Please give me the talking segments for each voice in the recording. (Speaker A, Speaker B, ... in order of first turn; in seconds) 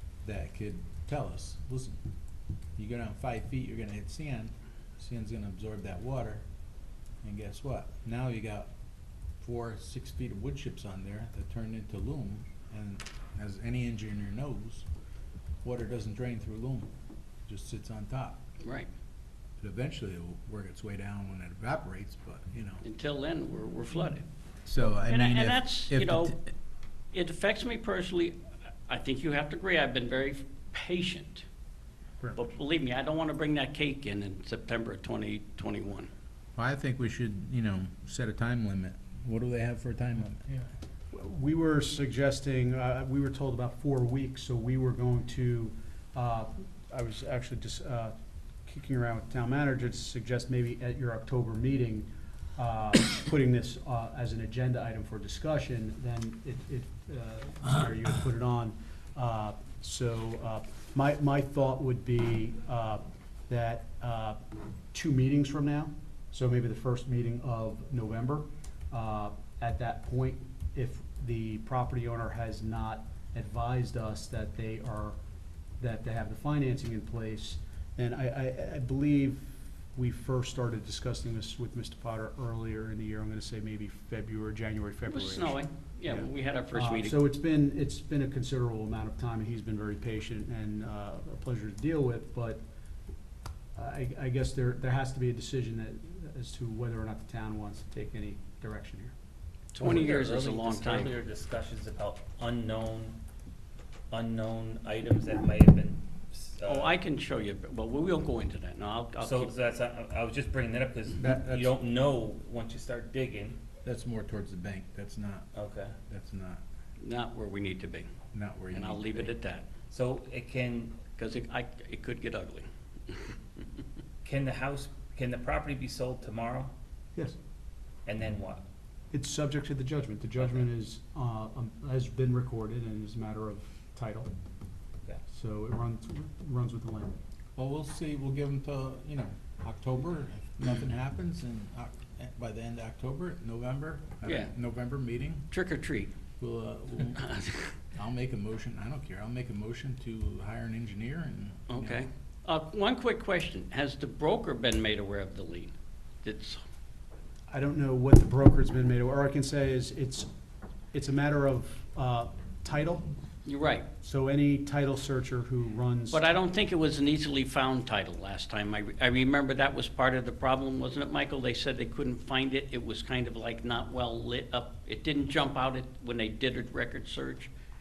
Speaker A: 0.2-2.0, 2.8-6.4, 7.2-8.7, 9.4-14.9, 15.6-16.9, 17.5-18.4, 19.6-22.8, 24.7-26.4, 36.6-40.4, 111.2-111.8, 113.8-115.5, 116.1-116.6, 118.3-119.3, 137.6-145.5, 146.4-147.4, 147.9-152.0
Speaker B: 18.6-18.9, 22.8-24.2, 24.9-26.4, 27.1-28.4, 28.9-31.4, 32.4-36.1, 85.1-87.2, 99.7-101.1, 106.7-109.5, 117.0-118.1, 118.7-119.7, 121.2-123.4, 144.2-144.5, 145.5-146.1, 147.3-147.7, 151.7-155.7, 156.2-156.6, 163.5-163.9, 166.1-177.5
Speaker C: 41.1-48.1, 48.7-64.4, 64.9-75.2, 75.8-92.6, 93.8-99.1, 129.1-134.3, 135.3-137.2, 157.5-160.3, 160.9-163.1, 164.0-166.2
Speaker D: 99.8-103.2, 104.1-107.0, 109.2-113.6, 115.5-116.0, 119.9-121.0, 124.2-126.7, 128.1-128.6